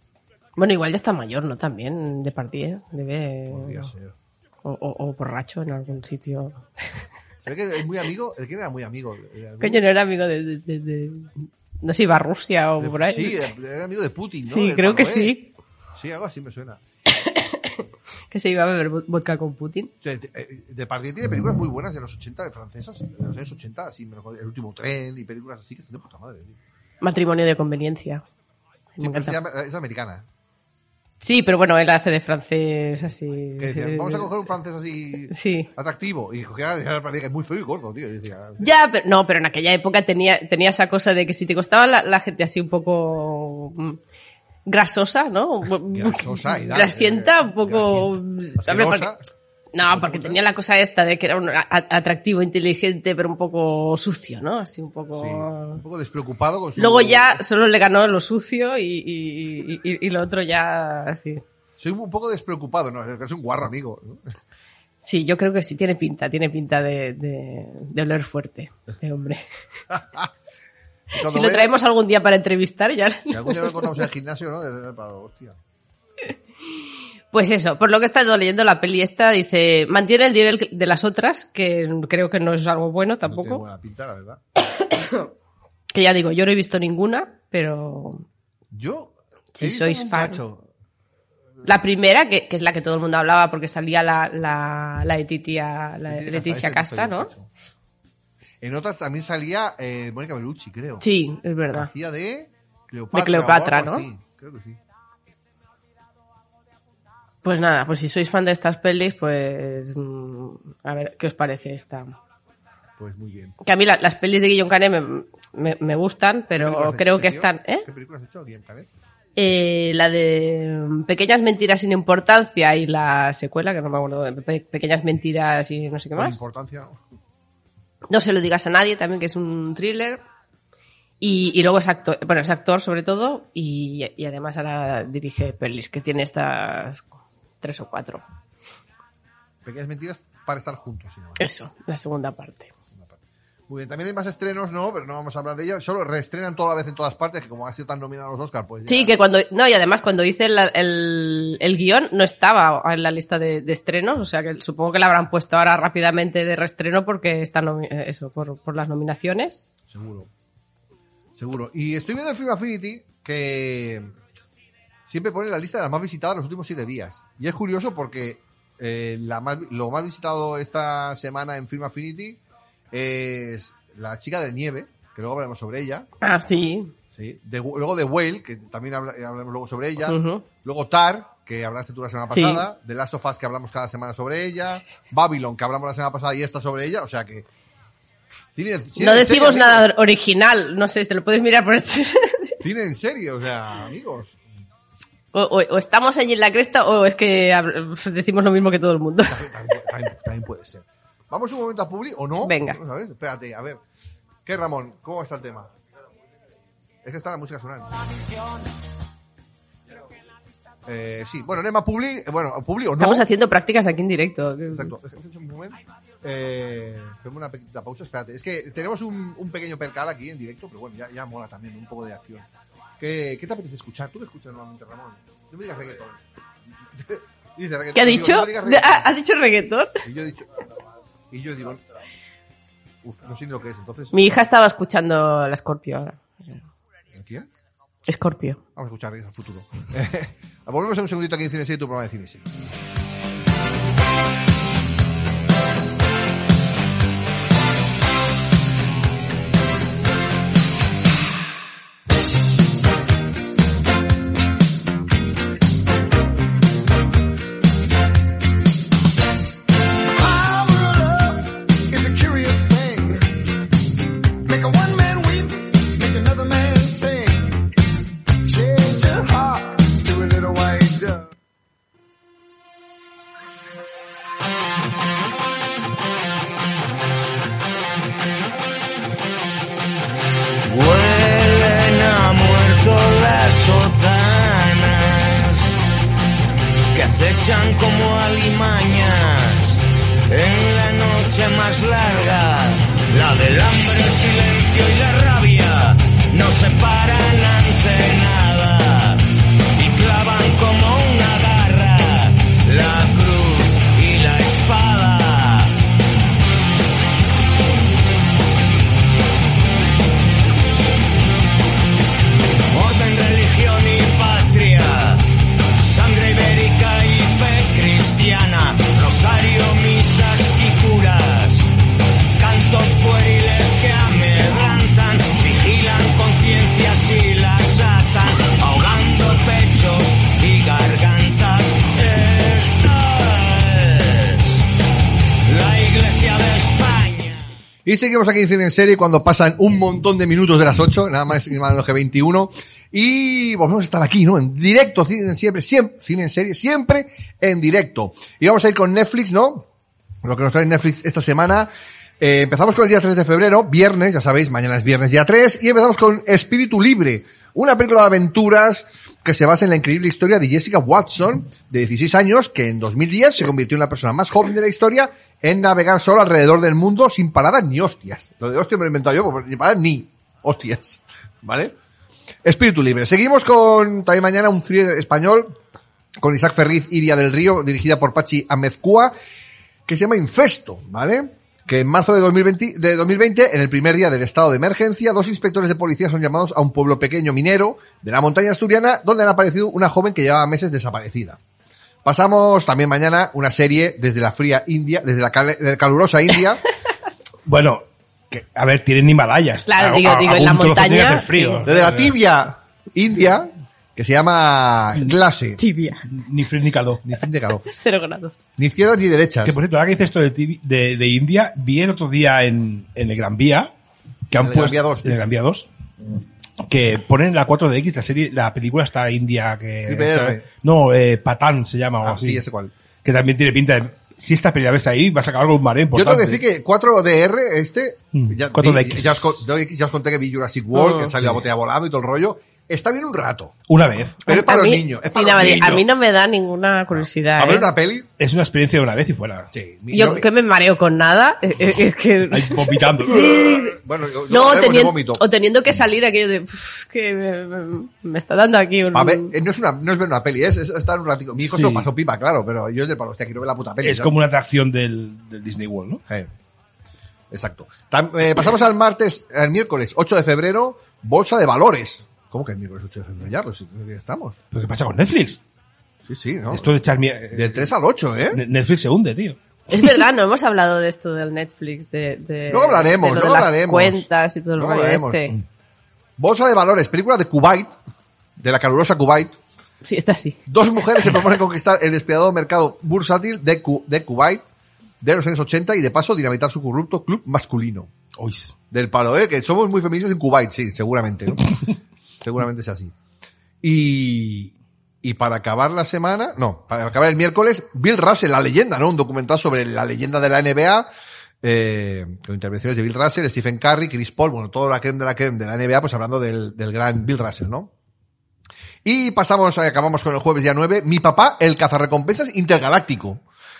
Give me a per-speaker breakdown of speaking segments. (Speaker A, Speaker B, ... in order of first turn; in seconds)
Speaker A: 0.6-3.9, 4.6-7.0, 9.6-13.5, 14.4-15.5, 17.1-19.9, 27.0-28.2, 29.0-29.4, 31.2-34.3, 35.3-35.7, 38.6-44.0, 44.6-49.1, 49.7-55.8, 56.8-61.4, 65.0-69.4, 71.2-73.9, 77.3-83.6, 84.9-85.3, 85.9-88.2, 89.5-90.4, 91.6-97.3, 101.0-101.9, 103.1-104.1, 107.4-112.1, 113.6-117.8, 119.3-126.4, 128.1-130.2, 131.2-138.2, 141.4-142.7, 148.9-159.6, 176.2-176.9, 180.0-180.4, 182.3-182.6, 188.9-192.5, 195.3-199.4, 202.4-202.8, 213.0-214.9, 227.9-230.0, 234.1-236.6, 238.1-238.6, 399.7-401.6, 405.6-406.0, 407.6-408.4, 430.7-431.1, 434.2-437.7, 439.9-443.8, 444.3-449.3, 469.7-475.3, 479.8-480.4
Speaker B: 3.5-4.1, 7.4-9.8, 12.8-15.3, 15.9-16.8, 20.0-26.6, 29.0-30.2, 33.6-38.6, 45.9-49.2, 49.9-50.4, 55.1-57.4, 61.8-64.3, 69.9-70.3, 71.1-71.7, 73.3-75.6, 83.2-84.4, 88.7-90.7, 96.1-97.5, 98.6-101.0, 101.7-104.8, 113.0-113.5, 116.5-118.9, 126.1-127.0, 139.6-141.4, 142.9-143.2, 143.7-149.2, 159.9-160.3, 161.3-164.1, 165.1-172.4, 172.9-176.1, 177.1-187.4, 188.5-189.9, 192.6-194.4, 199.3-203.8, 204.4-205.7, 207.0-207.9, 210.8-213.2, 214.7-222.5, 223.0-226.2, 226.8-229.1, 230.0-230.5, 231.3-231.8, 233.0-234.2, 237.1-237.5, 238.8-242.4, 337.9-349.6, 350.2-371.7, 372.4-375.6, 376.2-379.1, 379.9-391.4, 392.0-396.6, 401.6-405.6, 407.0-407.6, 408.6-409.6, 414.4-415.3, 419.9-420.4, 422.0-422.7, 425.9-433.6, 434.2-435.8, 437.4-438.1, 439.5-440.3, 443.3-445.2, 448.9-454.1, 457.3-464.4, 466.1-466.7, 467.3-468.4, 472.5-475.3, 476.2-477.8, 478.4-479.4, 480.5-484.4, 485.0-487.9, 488.7-491.6, 492.2-492.9, 493.6-500.9, 501.4-507.7, 508.8-513.2
Speaker C: 260.1-263.5, 264.4-267.7, 268.4-271.3
Speaker D: 280.7-285.8, 286.9-305.8, 312.7-321.7, 322.4-334.7, 335.4-337.5
Speaker E: 397.4-402.1, 406.1-407.0, 409.4-413.7, 414.3-415.7, 416.7-422.4, 423.0-426.4, 428.1-429.4, 433.7-434.2, 438.2-439.5, 442.3-443.5, 451.4-451.9, 453.8-456.0, 464.5-465.4, 466.5-467.7, 468.3-469.4, 488.2-488.5